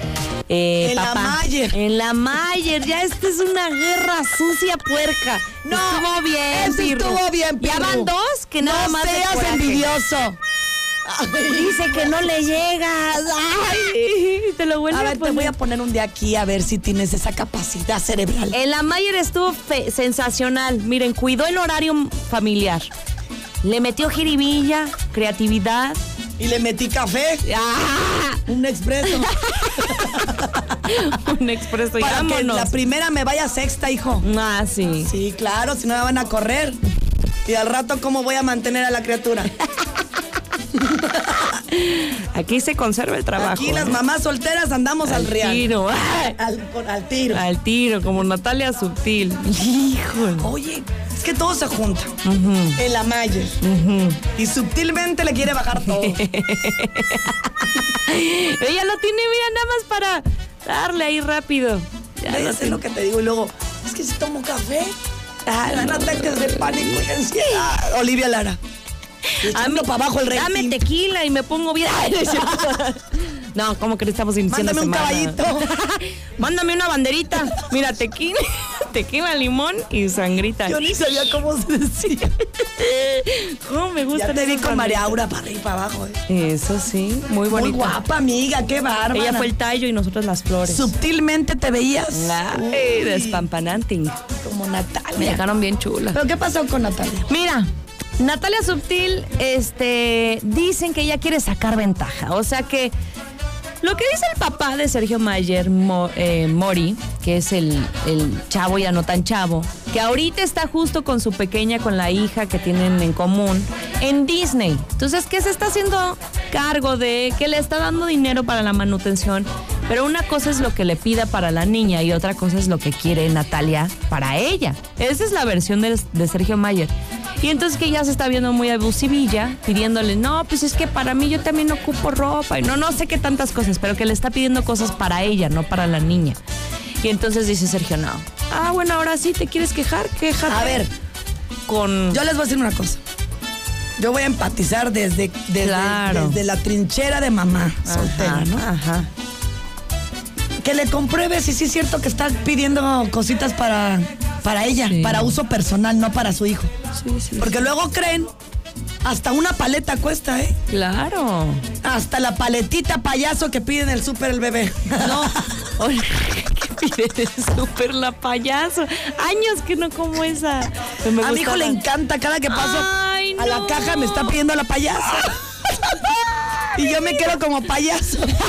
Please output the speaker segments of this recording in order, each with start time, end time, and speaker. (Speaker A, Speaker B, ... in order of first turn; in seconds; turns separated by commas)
Speaker A: 0.5-9.9, Speaker B: 0.8-1.8, Speaker B: 5.7-10.4, Speaker B: 11.1-12.1, Speaker A: 11.5-15.5, Speaker B: 14.9-18.6, Speaker A: 18.5-22.9, Speaker A: 23.6-26.0, Speaker B: 26.4-27.4, Speaker A: 27.5-28.4, Speaker B: 28.5-30.7, Speaker A: 29.1-30.2, Speaker A: 30.8-32.7, Speaker B: 32.0-34.2, Speaker A: 34.2-35.1, Speaker B: 35.0-36.8, Speaker B: 37.5-39.5, Speaker B: 40.8-41.5, Speaker A: 41.5-44.0, Speaker B: 43.4-45.7, Speaker A: 45.0-46.4, Speaker B: 46.4-47.4, Speaker A: 47.3-50.5, Speaker B: 50.4-52.1, Speaker A: 52.2-52.8, Speaker B: 52.8-53.6, Speaker A: 53.6-54.2, Speaker B: 54.4-56.2, Speaker A: 55.8-62.8, Speaker B: 62.3-68.6, Speaker A: 65.7-67.0, Speaker A: 69.3-81.2, Speaker B: 69.4-70.8, Speaker B: 74.5-75.7, Speaker B: 80.7-82.3, Speaker A: 82.6-85.2, Speaker B: 84.1-86.2, Speaker A: 86.3-88.0, Speaker B: 87.5-89.5, Speaker A: 89.1-90.9, Speaker B: 90.7-93.5, Speaker A: 92.1-94.2, Speaker B: 94.4-95.4, Speaker A: 95.2-96.2, Speaker B: 96.1-97.3, Speaker A: 97.3-102.9, Speaker A: 103.8-136.4, Speaker A: 137.0-140.9, Speaker B: 140.5-140.9, Speaker A: 141.7-142.2, Speaker B: 142.1-143.0, Speaker B: 144.0-148.6, Speaker A: 145.6-146.4, Speaker A: 147.8-149.1, Speaker B: 150.6-156.7, Speaker A: 154.8-155.4, Speaker A: 156.9-157.7, Speaker B: 157.4-158.3, Speaker B: 159.0-160.5, Speaker A: 160.7-161.6, Speaker B: 161.8-165.4, Speaker A: 165.0-171.8, Speaker B: 171.2-175.3, Speaker A: 172.5-174.4, Speaker A: 176.5-177.3, Speaker B: 176.8-178.3